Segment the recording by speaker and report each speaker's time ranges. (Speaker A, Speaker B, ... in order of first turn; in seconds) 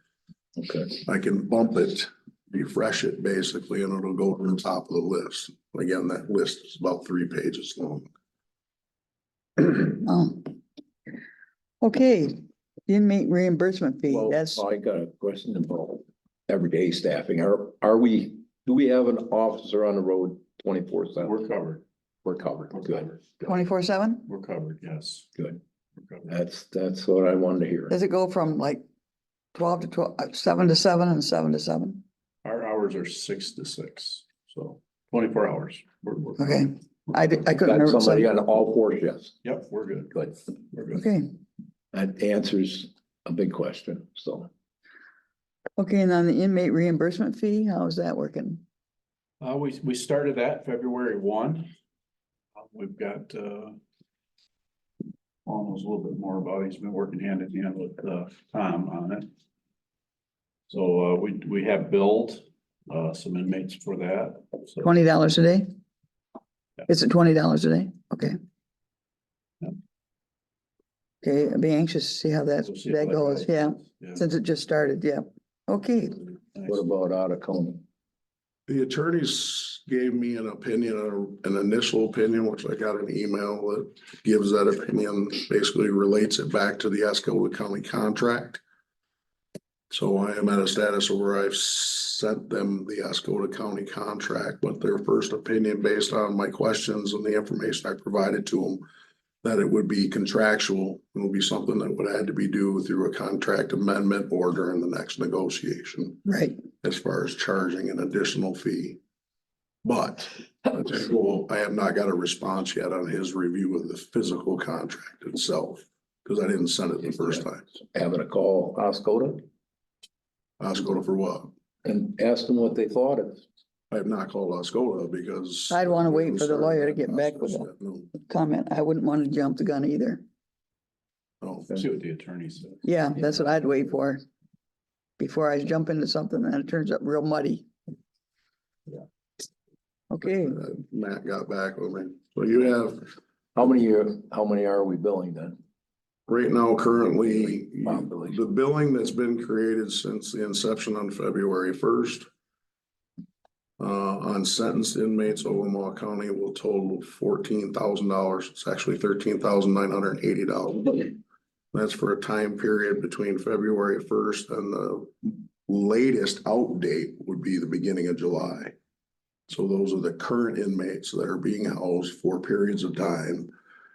Speaker A: 0.6-1.0, 14.1-21.4, 22.2-23.6, 26.2-27.9, 37.6-39.4, 41.9-44.5, 76.6-77.8, 117.2-119.5, 121.8-123.4, 143.5-145.6, 147.4-148.4
Speaker B: 1.0-8.1, 78.7-88.6, 89.9-98.8, 99.4-106.2, 106.8-109.0, 109.8-117.6, 120.6-121.5, 123.9-128.1, 131.4-131.8, 140.2-143.1, 146.3-152.3, 153.8-161.2, 161.7-168.7, 169.5-173.5
Speaker C: 9.6-10.6, 11.8-14.6, 23.4-24.2, 27.9-28.8, 29.5-32.0, 36.4-38.3, 40.9-41.3, 45.8-48.6, 64.8-65.7, 66.9-68.4, 71.2-76.2, 106.2-106.6, 125.7-130.2, 132.8-134.2, 135.2-137.7, 140.1-140.6
Speaker D: 21.2-21.8, 24.2-25.3, 26.0-26.3, 32.4-37.4, 39.4-41.0, 49.4-51.7, 52.6-53.8, 55.5-59.3, 60.7-64.9, 72.6-74.2, 131.7-132.8